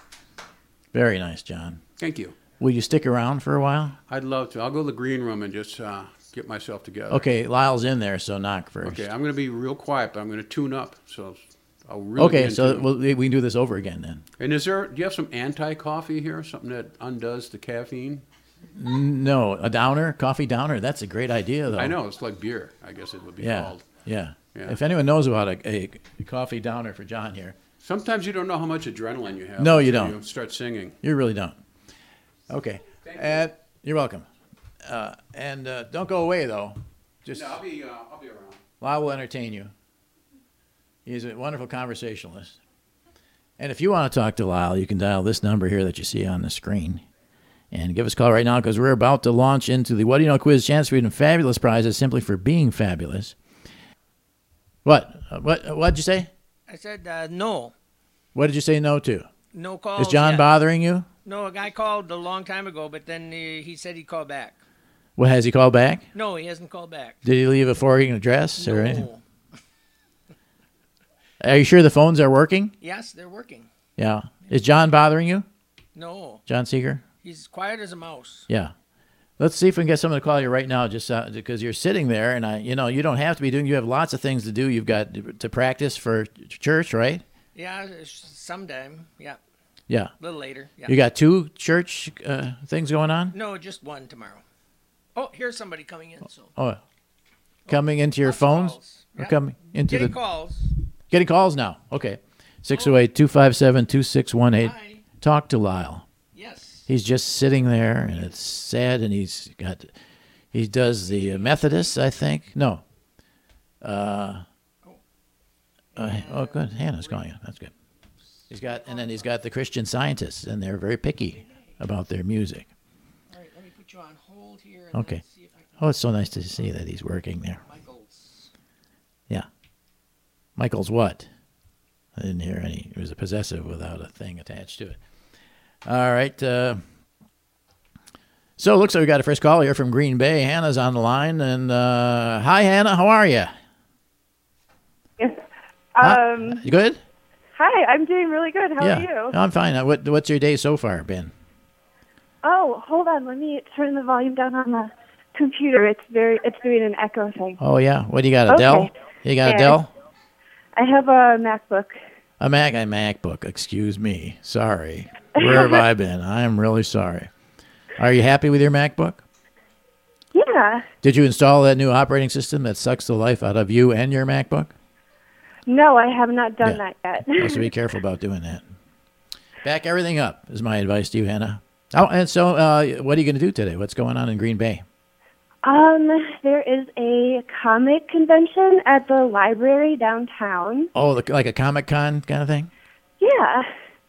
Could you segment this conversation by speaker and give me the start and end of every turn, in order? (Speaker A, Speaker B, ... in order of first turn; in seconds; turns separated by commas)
Speaker A: 0.9-1.8, Speaker B: 2.0-2.4, Speaker A: 2.6-4.0, Speaker B: 4.1-7.2, Speaker A: 7.1-9.0, Speaker B: 8.8-12.9, Speaker A: 12.2-14.2, Speaker B: 14.4-18.2, Speaker A: 18.8-22.0, Speaker B: 21.7-23.9, Speaker A: 23.4-27.6, Speaker B: 24.5-24.8, Speaker B: 27.8-31.0, Speaker A: 29.6-30.2, Speaker A: 31.0-31.6, Speaker A: 32.5-34.3, Speaker B: 33.0-33.5, Speaker A: 34.8-37.6, Speaker B: 37.3-38.6, Speaker A: 38.8-39.7, Speaker A: 41.0-42.6, Speaker A: 43.6-47.0, Speaker A: 47.7-53.4, Speaker A: 54.8-56.3, Speaker C: 56.7-57.7, Speaker A: 58.3-59.3, Speaker C: 59.5-60.5, Speaker A: 60.0-61.1, Speaker C: 61.2-64.6, Speaker A: 65.2-66.0, Speaker C: 66.1-67.2, Speaker A: 67.2-69.1, Speaker C: 68.6-69.2, Speaker A: 71.4-72.7, Speaker C: 72.8-73.7, Speaker A: 74.0-75.5, Speaker C: 75.9-76.4, Speaker A: 76.5-77.0, Speaker C: 77.2-78.5, Speaker A: 79.4-87.2, Speaker C: 87.5-89.4, Speaker C: 90.2-91.0, Speaker A: 90.8-93.3, Speaker C: 93.3-94.4, Speaker C: 95.1-96.5, Speaker C: 97.7-99.3, Speaker A: 97.7-100.2, Speaker C: 99.9-100.7, Speaker A: 101.1-106.0, Speaker C: 102.7-103.0, Speaker C: 104.6-105.0, Speaker C: 106.3-106.9, Speaker A: 106.9-109.9, Speaker A: 110.5-112.8, Speaker C: 111.2-111.6, Speaker A: 113.8-114.4, Speaker C: 115.9-117.2, Speaker A: 116.0-117.7, Speaker A: 118.5-122.7, Speaker C: 118.5-119.3, Speaker C: 121.3-121.8, Speaker C: 123.3-125.9, Speaker A: 124.9-125.2, Speaker A: 125.8-127.6, Speaker C: 127.6-128.5, Speaker A: 130.6-131.3, Speaker A: 132.2-135.0, Speaker A: 135.8-136.8, Speaker A: 138.6-143.5, Speaker D: 145.9-146.6, Speaker A: 146.0-147.0, Speaker D: 147.6-149.3, Speaker A: 148.8-151.3, Speaker D: 152.4-157.6, Speaker A: 157.6-159.9, Speaker D: 158.5-158.9, Speaker D: 159.4-159.8, Speaker D: 160.8-162.0, Speaker A: 162.4-167.3, Speaker D: 165.4-165.8, Speaker A: 168.0-169.2, Speaker D: 170.3-170.9, Speaker A: 171.0-174.7, Speaker D: 175.7-177.7, Speaker A: 176.6-178.7, Speaker A: 179.6-184.8, Speaker D: 185.6-190.9, Speaker A: 190.9-192.7, Speaker D: 193.2-193.7